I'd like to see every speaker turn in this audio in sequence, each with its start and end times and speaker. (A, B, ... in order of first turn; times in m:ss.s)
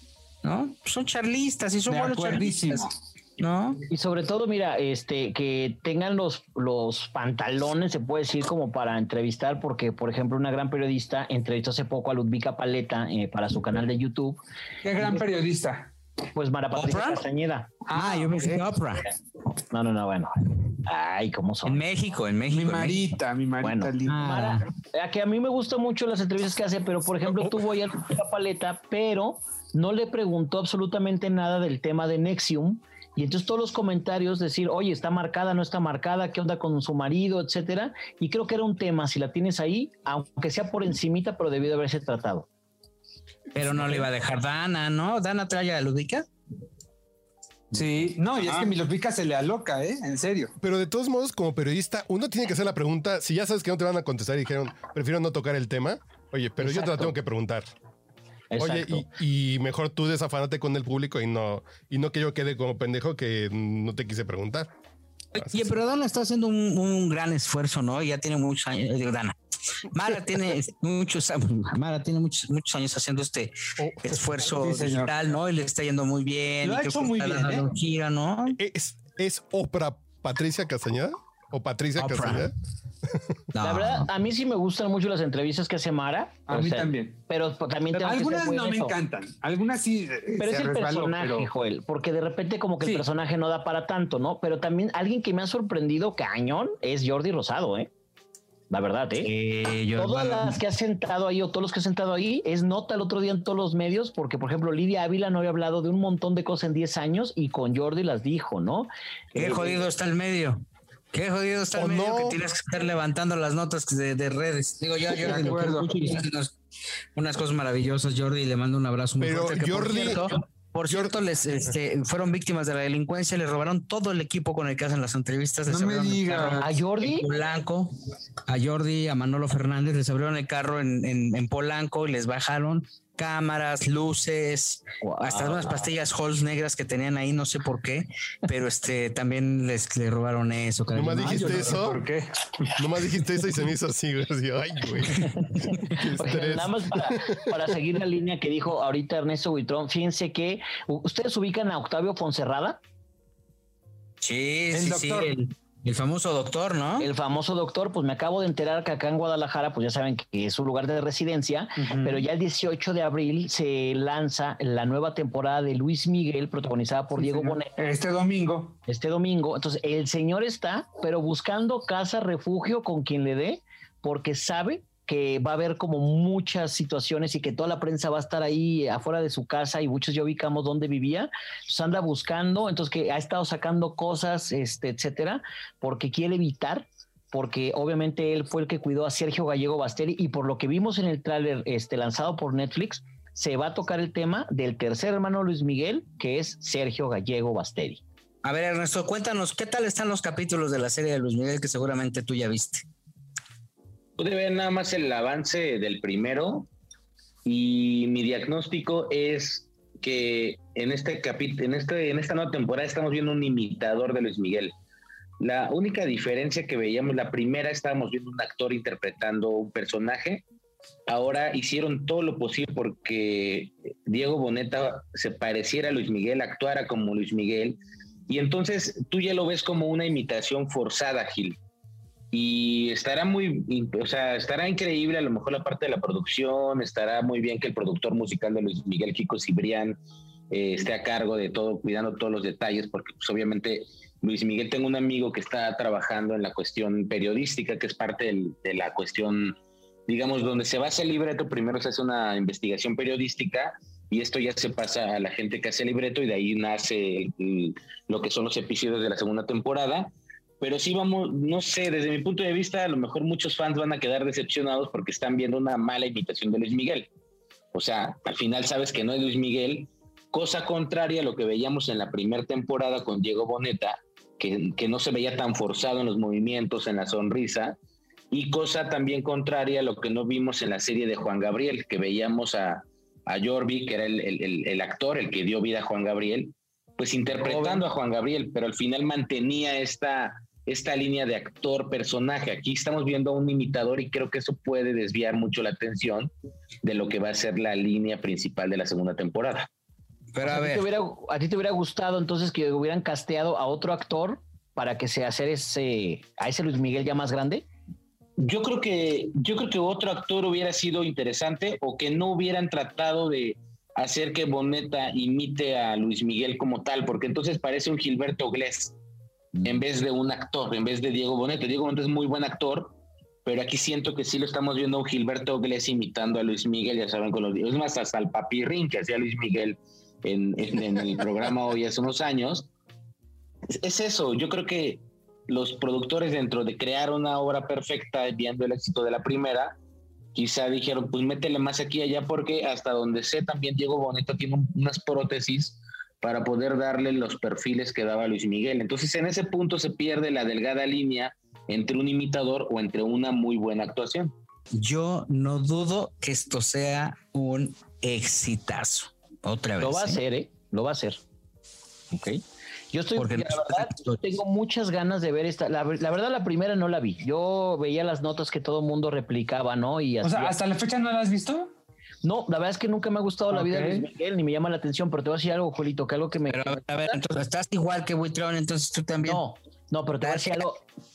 0:00.4-0:02.9 A
0:01.9-0:02.9 B
0:03.4-0:03.8 A
0:03.9-0:14.4 C
0:14.8-0:15.9 B
0:16.4-0:17.7 C
0:16.8-0:17.2 A
0:17.9-0:18.7 B
0:17.9-0:19.1 A
0:19.7-0:20.3 C
0:20.8-0:21.8 C
0:21.6-0:23.0 A
0:22.5-0:24.3 B
0:23.6-0:42.5 C
0:24.1-0:24.6 A
0:43.6-0:46.3 A
0:43.7-0:44.1 B
0:47.7-0:50.5 B
0:48.4-0:48.7 D
0:50.6-0:57.7 E
0:56.6-0:57.2 C
0:58.5-0:59.0 C
0:58.6-1:04.7 E
1:05.4-1:05.7 E
1:05.4-1:09.4 A
1:09.9-1:18.6 A
1:13.8-1:14.2 E
1:14.6-1:15.1 B
1:16.6-1:17.7 B
1:18.6-1:22.5 E
1:22.0-1:22.5 A
1:23.5-1:24.1 A
1:23.6-1:29.0 C
1:26.5-1:27.2 B
1:27.9-1:31.5 B
1:30.4-1:37.9 C
1:38.7-1:39.3 C
1:39.2-1:40.6 A
1:40.0-1:49.9 C
1:49.4-1:50.6 A
1:51.1-1:56.5 A
1:51.8-1:52.4 E
1:55.1-1:56.1 B
1:57.2-2:07.9 A
1:59.2-2:00.3 E
2:00.9-2:01.2 E
2:05.7-2:06.7 B
2:06.6-2:07.3 C
2:08.5-2:21.8 A
2:15.0-2:15.9 C
2:20.9-2:22.0 E
2:21.2-2:22.8 B
2:22.8-2:27.4 E
2:25.5-2:32.8 C
2:34.2-2:37.1 A
2:34.7-2:35.3 B
2:37.0-2:47.8 C
2:41.8-2:42.2 B
2:47.2-2:48.8 B
2:48.9-3:18.0 C
3:18.4-3:22.8 A
3:24.2-3:26.7 D
3:27.4-3:34.7 D
3:35.4-3:40.4 D
3:41.1-3:51.6 D
3:52.3-4:00.0 D
4:00.5-4:27.1 D
4:27.7-4:37.8 D
4:38.3-4:56.3 D
4:47.4-4:47.9 C
4:56.8-4:59.7 D
5:00.3-5:00.8 A
5:00.4-5:07.6 C
5:08.4-5:19.0 D
5:19.6-5:32.7 D
5:33.8-5:39.8 D
5:40.4-5:54.3 D
5:54.7-6:00.2 A
5:59.8-6:01.2 C
6:02.1-6:02.4 C
6:02.9-6:10.6 C
6:03.2-6:04.2 A
6:10.2-6:11.7 B
6:12.2-6:17.2 C
6:13.5-6:14.1 B
6:16.5-6:19.4 A
6:19.2-6:20.8 C
6:20.2-6:20.6 A